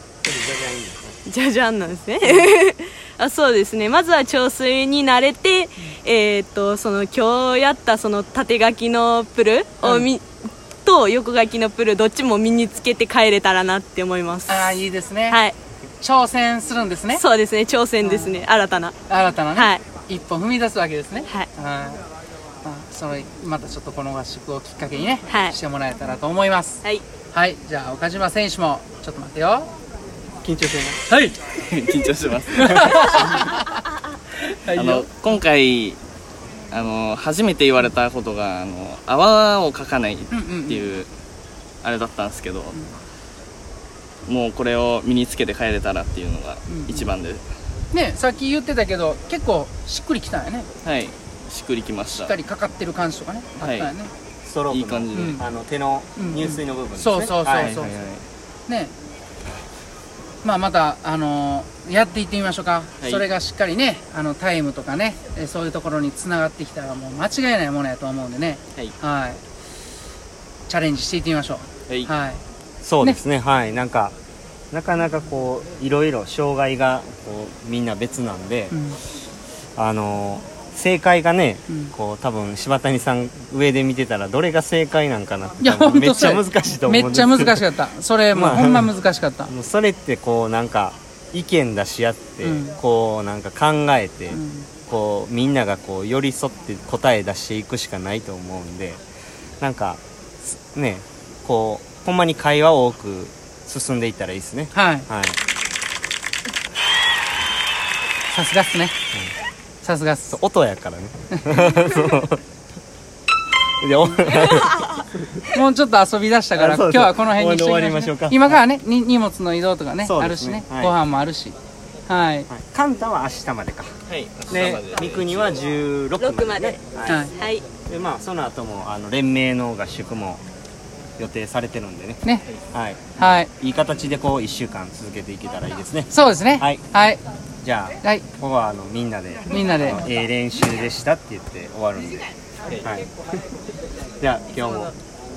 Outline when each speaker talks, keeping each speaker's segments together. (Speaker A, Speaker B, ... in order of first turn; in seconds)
Speaker A: 0.2-1.2, 30.4-31.0, 54.4-58.0, 72.8-74.1, 74.7-78.8, 79.8-87.7, 88.3-88.9, 89.5-99.0, 99.6-105.4, 110.3-112.4, 113.8-115.0, 116.5-118.6, 120.0-120.9, 122.5-124.0, 124.5-127.3, 127.8-130.4, 131.2-136.8, 137.6-143.1, 144.2-144.9
Speaker B: 1.3-10.2, 10.8-15.5, 17.1-18.9, 19.5-19.8, 25.3-25.6, 126.2-126.8, 127.3-127.7
Speaker C: 2.2-2.5, 9.8-10.1, 14.5-15.4, 16.0-17.2, 18.0-18.4, 19.1-22.0, 22.6-29.7, 31.1-31.4, 32.5-33.8, 34.5-35.1, 40.3-40.9, 46.7-47.1, 47.9-50.7, 52.1-54.1, 55.1-55.4, 56.2-57.9, 60.4-69.4, 70.7-72.4, 78.7-79.0, 85.6-89.5, 92.4-92.8, 94.3-94.7, 104.7-105.0, 108.3-108.9, 109.8-110.3, 111.3-111.9, 115.5-121.5, 122.1-122.5, 127.0-127.3, 133.2-133.5, 136.1-137.2, 139.5-140.1
Speaker D: 31.6-33.5, 34.7-36.0, 36.7-41.1, 41.8-42.8, 44.2-47.4, 50.8-52.4, 53.6-53.9, 54.7-55.4, 57.6-58.2, 124.1-125.6